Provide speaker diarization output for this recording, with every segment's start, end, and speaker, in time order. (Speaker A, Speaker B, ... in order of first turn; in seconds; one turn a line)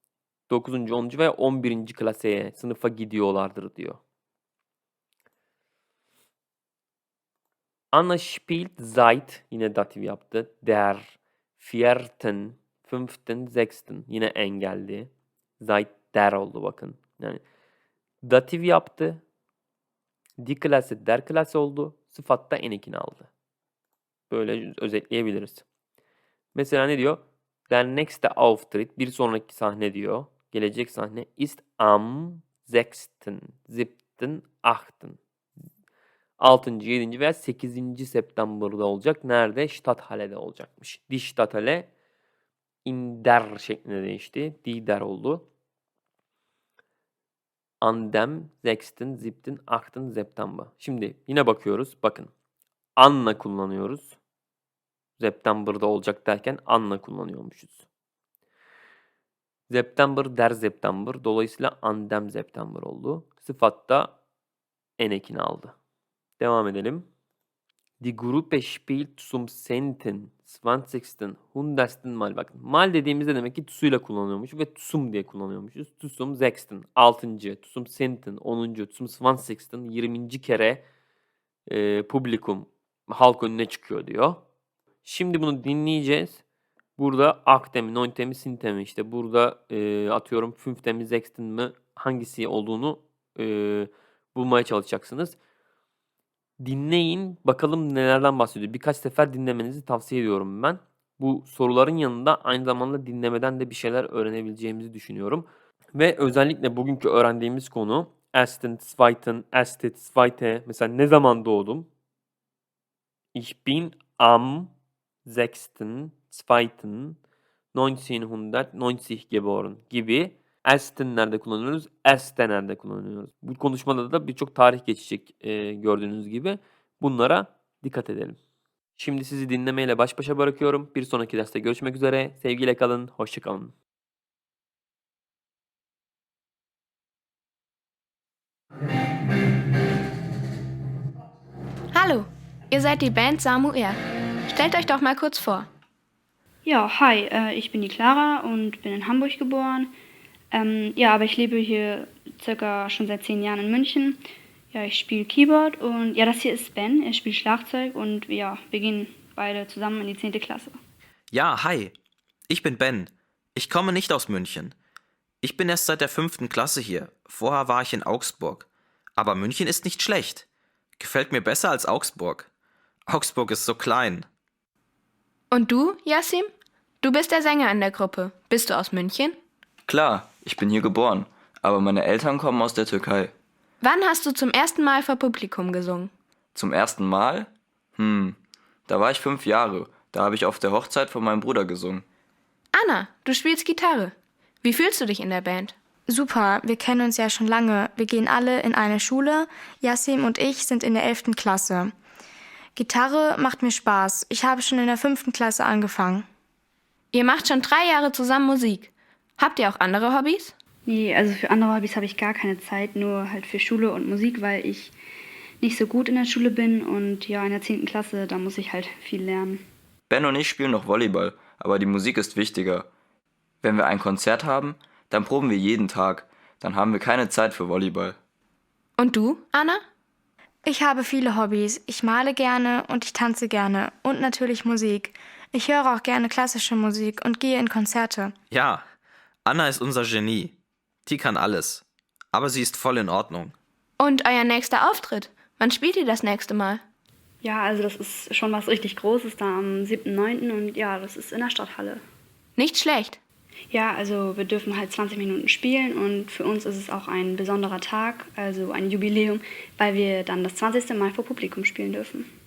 Speaker A: 0.5-4.0
Speaker A: 7.9-17.4
Speaker A: 18.2-19.2
Speaker A: 20.4-23.3
Speaker A: 24.3-25.6
Speaker A: 26.5-35.2
Speaker A: 36.4-41.9
Speaker A: 42.8-45.5
Speaker A: 47.8-52.3
Speaker A: 53.0-54.2
Speaker A: 55.2-57.8
Speaker A: 59.7-64.2
Speaker A: 65.0-65.7
Speaker A: 66.4-67.1
Speaker A: 68.0-80.8
Speaker A: 81.7-84.4
Speaker A: 85.0-86.4
Speaker A: 87.0-95.3
Speaker A: 96.6-111.9
Speaker A: 113.3-114.7
Speaker A: 115.2-117.2
Speaker A: 117.7-128.4
Speaker A: 129.0-133.7
Speaker B: 141.9-144.0
Speaker B: 144.5-145.7
Speaker C: 146.6-149.9
Speaker C: 150.5-154.2
Speaker C: 154.7-160.8
Speaker D: 161.3-161.9
Speaker D: 162.5-164.7
Speaker D: 165.4-168.7
Speaker D: 169.2-170.4
Speaker D: 171.0-172.5
Speaker D: 173.1-174.3
Speaker B: 175.5-176.5
Speaker B: 177.0-179.4
Speaker E: 179.9-183.3
Speaker B: 183.8-186.1
Speaker E: 186.5-188.3
Speaker E: 188.9-192.0
Speaker B: 192.7-195.7
Speaker F: 196.1-201.9
Speaker F: 202.8-206.2
Speaker B: 207.1-210.5
Speaker C: 210.8-214.9
Speaker C: 215.6-219.6
Speaker E: 220.1-222.9
Speaker E: 223.6-228.2
Speaker B: 229.0-229.8
Speaker F: 230.7-238.3
Speaker D: 238.5-238.8
Speaker D: 239.4-243.6
Speaker B: 244.0-246.8
Speaker C: 247.4-252.0
Speaker B: 252.6-253.2
Speaker C: 253.7-262.3